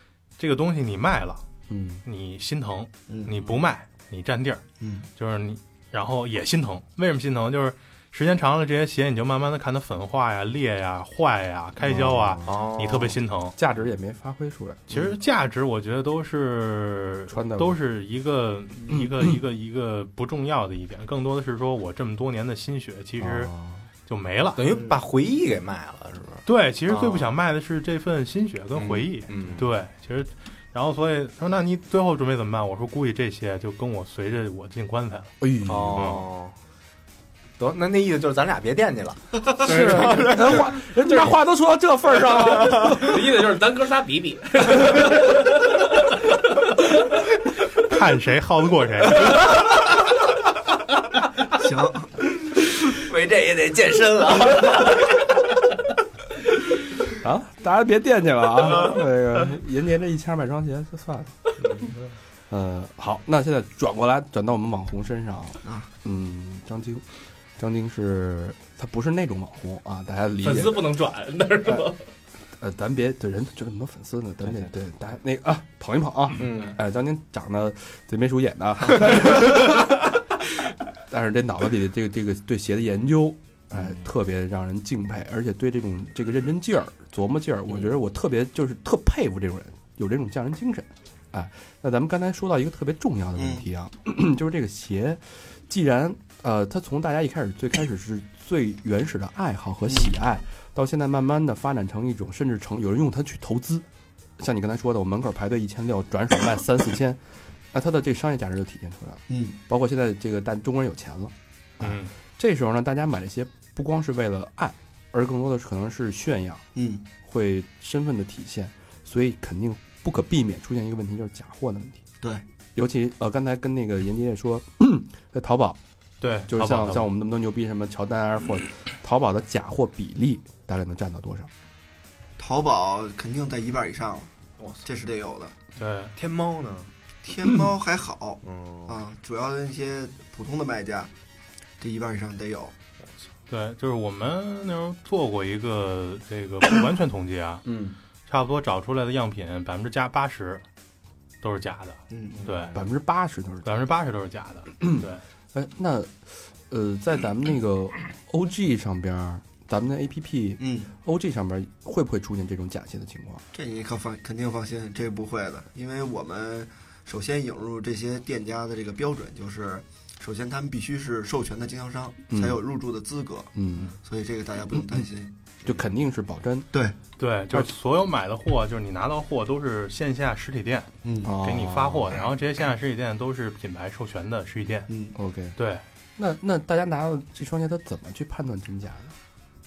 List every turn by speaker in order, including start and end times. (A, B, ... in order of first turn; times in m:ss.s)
0:00.4-0:01.4 A
0:01.7-0:02.0 B
0:02.0-0:04.6 A
0:03.1-0:03.4 C
0:04.8-0:05.1 C
0:05.2-0:13.5 A
0:11.8-0:12.6 B
0:12.4-0:13.2 D
0:13.6-0:14.8 B
0:14.9-0:23.5 A
0:14.9-0:15.2 C
0:17.3-0:17.8 B
0:18.9-0:19.4 B
0:23.2-0:23.8 B
0:24.1-0:24.6 A
0:24.6-0:27.3 D
0:24.7-0:25.0 C
0:26.4-0:35.3 A
0:28.7-0:29.6 D
0:35.4-0:36.2 B
0:35.6-0:36.5 D
0:35.9-0:36.2 A
0:37.6-0:40.8 D
0:39.6-0:43.1 B
0:39.6-0:40.4 E
0:41.1-0:41.3 E
0:42.5-0:43.0 D
0:42.9-0:45.6 E
0:47.8-0:49.6 A
0:51.6-0:52.1 C
0:52.8-0:55.2 D
0:57.1-1:01.5 B
1:01.6-1:01.9 D
1:02.5-1:07.0 B
1:07.6-1:10.9 B
1:10.4-1:12.0 E
1:12.6-1:20.1 B
1:16.4-1:16.8 D
1:21.1-1:43.8 B
1:33.4-1:33.6 C
1:44.4-1:47.2 B
1:47.7-1:56.6 B
1:49.3-1:49.6 C
1:51.8-1:52.1 A
1:56.8-1:57.0 C
1:57.2-2:02.0 B
2:02.7-2:05.8 B
2:06.2-2:07.1 A
2:06.5-2:11.5 B
2:12.4-2:14.3 C
2:14.6-2:14.8 D
2:14.8-2:15.5 C
2:15.8-2:16.1 A
2:16.1-2:16.9 D
2:17.2-2:21.1 C
2:18.4-2:19.0 D
2:21.8-2:22.7 C
2:23.5-2:27.6 A
2:27.6-2:27.9 D
2:28.3-2:30.6 A
2:31.4-2:32.7 A
2:32.1-2:32.4 C
2:32.4-2:32.8 D
2:32.7-2:33.7 B
2:33.6-2:35.2 A
2:34.8-2:43.4 B
2:40.6-2:40.9 C
2:43.5-2:53.5 C
2:52.3-2:52.6 B
2:53.5-2:53.9 B
2:54.0-2:55.5 C
2:55.6-2:56.7 B
2:57.2-3:00.9 A
3:01.0-3:01.3 C
3:01.2-3:02.2 B
3:01.4-3:04.9 A
3:04.9-3:05.2 C
3:05.1-3:05.6 B
3:05.6-3:05.8 A
3:06.2-3:09.1 B